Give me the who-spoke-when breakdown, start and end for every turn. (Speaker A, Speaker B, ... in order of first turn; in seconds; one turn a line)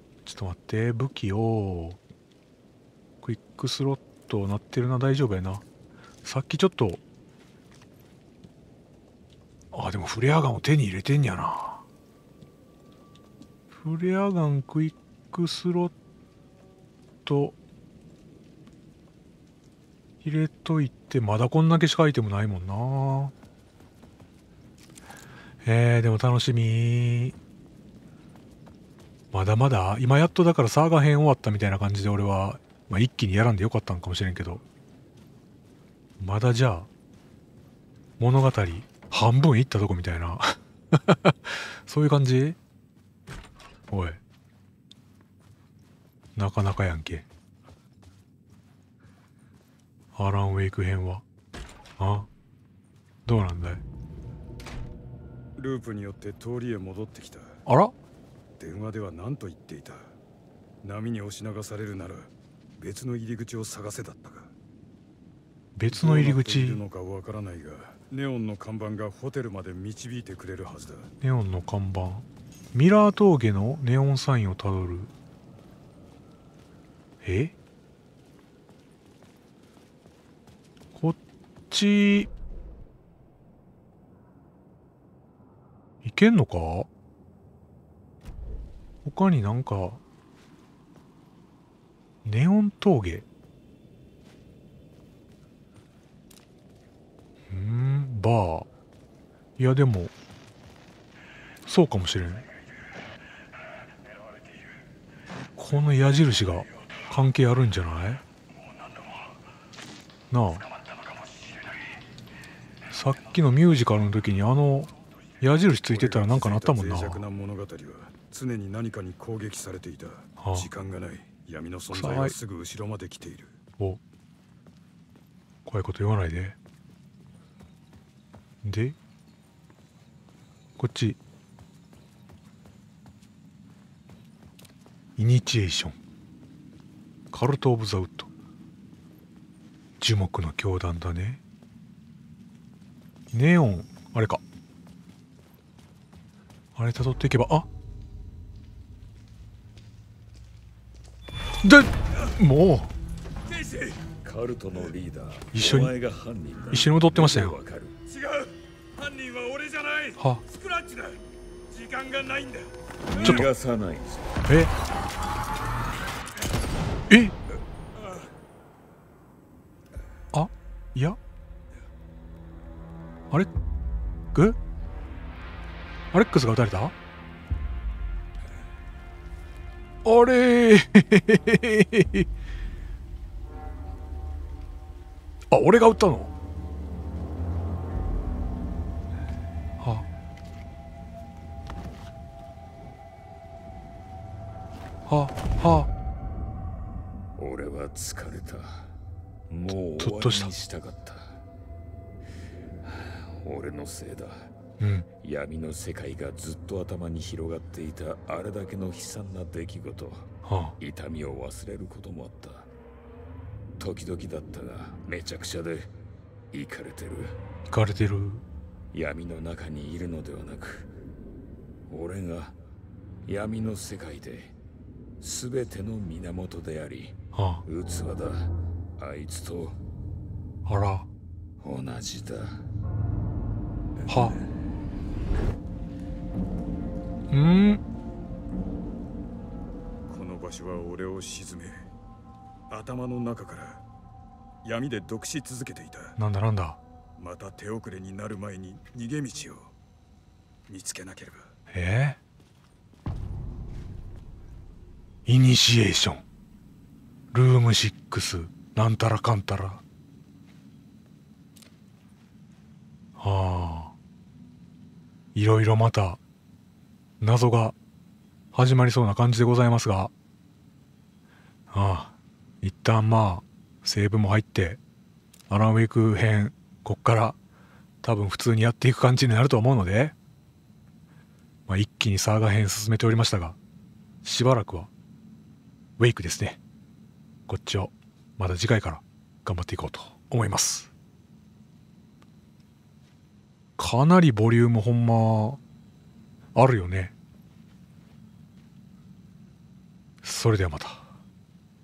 Speaker A: 0.2-2.0
Speaker A: 3.2-5.6
Speaker A: 6.2-7.0
Speaker A: 9.7-11.8
Speaker A: 13.7-15.9
Speaker A: 17.2-17.6
Speaker A: 20.2-23.3
Speaker A: 25.6-27.3
Speaker A: 29.3-34.6
Speaker A: 36.2-36.9
Speaker A: 38.2-42.6
Speaker A: 43.9-44.2
Speaker A: 46.4-47.2
Speaker A: 50.1-51.2
Speaker A: 52.0-52.3
Speaker A: 53.2-53.8
Speaker B: 55.5-57.6
Speaker A: 57.6-57.9
Speaker B: 58.6-60.1
Speaker B: 60.8-64.5
Speaker A: 65.8-66.8
Speaker B: 65.9-71.1
Speaker A: 71.2-75.1
Speaker A: 77.2-77.5
Speaker A: 81.7-82.3
Speaker A: 86.0-86.9
Speaker A: 89.0-90.0
Speaker A: 92.2-93.2
Speaker A: 97.5-98.7
Speaker A: 99.6-100.1
Speaker A: 101.7-102.4
Speaker A: 105.6-108.2
Speaker A: 110.3-110.7
Speaker A: 112.9-117.2
Speaker B: 115.7-123.6
Speaker A: 120.4-120.7
Speaker A: 121.9-122.3
Speaker A: 125.7-126.6
Speaker A: 128.6-128.9
Speaker A: 130.8-131.2
Speaker A: 135.2-136.0
Speaker A: 137.3-138.3
Speaker A: 140.0-141.4
Speaker A: 143.3-144.4
Speaker A: 146.8-147.7
Speaker A: 151.6-152.9
Speaker B: 153.4-154.1
Speaker C: 154.1-158.0
Speaker A: 155.5-155.9
Speaker A: 156.7-157.6
Speaker B: 158.1-162.9
Speaker A: 160.2-160.4
Speaker C: 163.1-164.4
Speaker A: 163.2-163.5
Speaker A: 164.5-164.7
Speaker A: 167.1-167.3
Speaker A: 170.3-171.2
Speaker A: 176.1-176.9
Speaker A: 180.0-182.3
Speaker A: 185.5-186.3
Speaker A: 189.8-190.1
Speaker A: 195.1-195.9
Speaker C: 197.4-198.9
Speaker C: 199.5-201.4
Speaker A: 200.0-200.5
Speaker C: 202.8-204.5
Speaker A: 204.8-205.1
Speaker C: 205.2-210.3
Speaker A: 210.4-210.8
Speaker C: 210.8-212.7
Speaker C: 213.8-215.9
Speaker C: 216.5-217.3
Speaker A: 217.7-218.4
Speaker C: 218.9-220.9
Speaker C: 221.9-222.6
Speaker C: 223.2-224.5
Speaker C: 225.2-229.8
Speaker A: 227.3-227.6
Speaker A: 230.7-231.1
Speaker C: 231.6-232.6
Speaker A: 234.1-234.4
Speaker C: 234.1-234.4
Speaker A: 237.3-237.8
Speaker B: 240.1-241.9
Speaker B: 242.7-243.8
Speaker B: 244.6-246.2
Speaker A: 246.2-246.8
Speaker B: 247.2-249.7
Speaker B: 250.7-251.5
Speaker A: 251.7-252.2
Speaker A: 255.2-256.2
Speaker A: 257.3-259.8
Speaker A: 263.2-263.9
Speaker A: 265.3-266.2
Speaker A: 267.2-267.7
Speaker A: 268.5-270.1
Speaker A: 271.7-274.8
Speaker A: 275.5-277.4
Speaker A: 278.0-280.1
Speaker A: 281.7-283.6
Speaker A: 284.2-284.9
Speaker A: 286.0-286.6
Speaker A: 287.5-290.9
Speaker A: 293.8-295.6
Speaker A: 296.5-297.1
Speaker A: 300.2-301.1